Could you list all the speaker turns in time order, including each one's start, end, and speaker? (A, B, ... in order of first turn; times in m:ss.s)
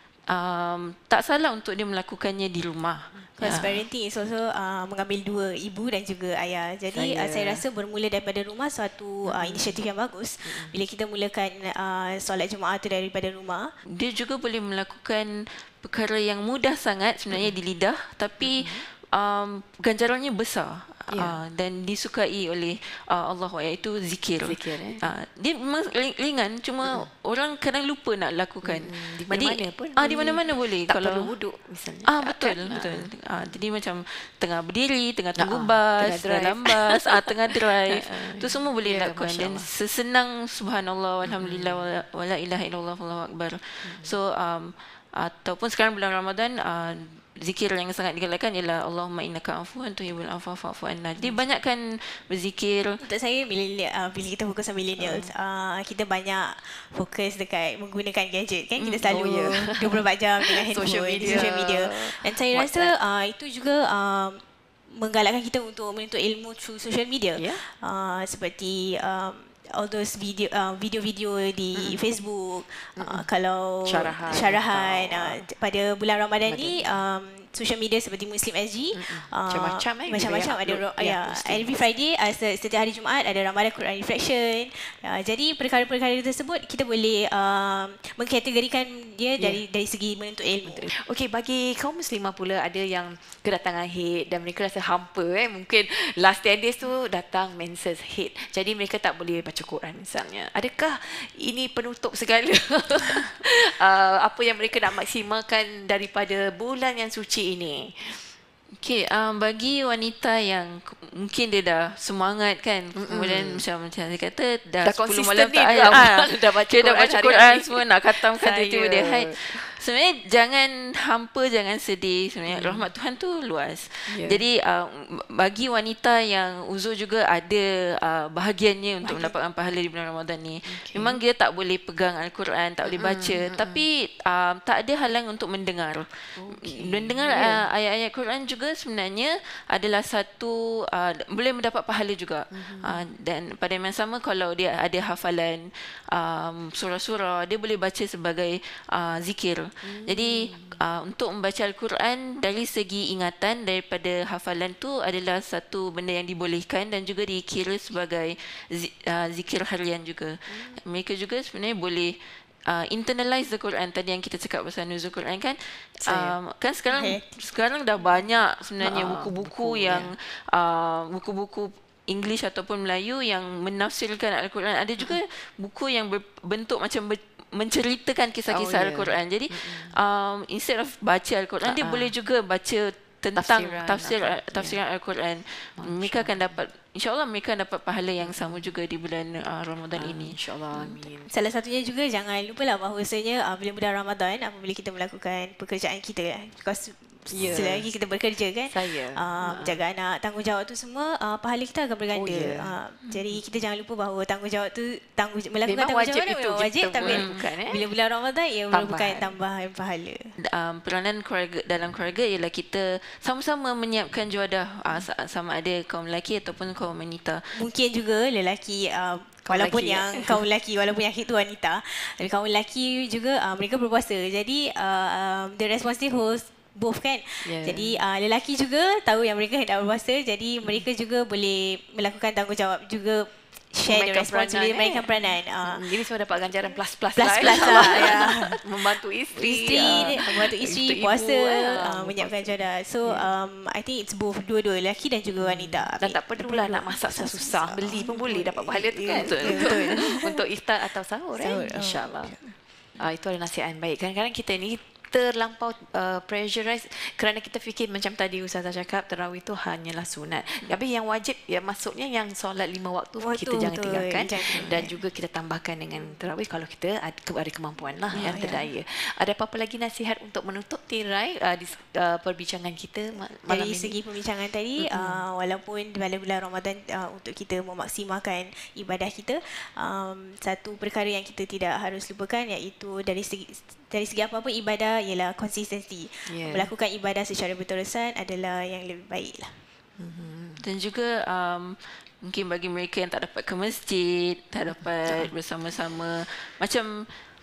0:00.3-0:03.8 A
0:03.4-0:13.7 B
0:06.9-0:07.6 C
0:09.2-0:09.8 C
0:10.4-0:10.8 C
0:14.0-0:31.3 A
0:18.4-0:18.9 C
0:21.1-0:21.4 C
0:24.4-0:25.0 C
0:28.6-0:33.1 C
0:32.0-0:53.0 A
0:35.4-0:39.7 C
0:41.2-0:42.0 C
0:43.8-0:44.2 C
0:51.2-0:51.4 C
0:53.0-1:30.9 B
0:55.0-0:55.3 C
0:58.8-0:59.2 A
0:59.1-1:02.9 C
1:07.4-1:07.6 C
1:11.7-1:12.0 C
1:13.0-1:13.3 C
1:13.8-1:15.5 C
1:16.5-1:17.0 C
1:18.9-1:21.7 C
1:29.4-1:29.6 C
1:30.6-1:48.3 C
1:48.8-3:11.0 A
1:53.0-1:53.6 C
1:54.8-1:59.8 C
2:02.5-2:02.9 C
2:04.1-2:04.4 C
2:09.0-2:09.4 C
2:10.7-2:11.2 C
2:12.8-2:13.8 C
2:16.4-2:17.6 C
2:22.5-2:23.0 C
2:29.8-2:30.8 C
2:40.5-2:40.8 C
2:46.0-2:46.4 C
2:46.9-2:47.3 B
2:48.8-2:50.1 C
2:58.5-3:00.0 C
3:01.6-3:02.2 C
3:03.4-3:04.8 C
3:05.8-3:06.6 C
3:08.2-3:08.7 C
3:09.9-3:11.3 C
3:11.3-3:30.3 B
3:17.3-3:17.9 C
3:18.7-3:19.8 C
3:22.1-3:22.8 C
3:25.6-3:27.9 C
3:27.0-3:27.4 A
3:28.7-3:29.4 C
3:30.5-3:37.5 A
3:37.5-3:56.0 B
3:39.4-3:40.4 C
3:47.4-3:48.0 C
3:53.9-4:03.3 C
3:56.6-4:10.4 B
4:05.4-4:12.4 C
4:09.1-4:10.0 A
4:11.4-4:12.6 B
4:13.0-4:34.0 C
4:23.2-4:25.0 B
4:28.1-4:28.7 B
4:33.4-4:49.6 B
4:34.8-4:35.2 C
4:46.3-4:46.7 C
4:50.0-4:50.6 C
4:50.6-4:56.9 A
4:54.7-4:55.3 C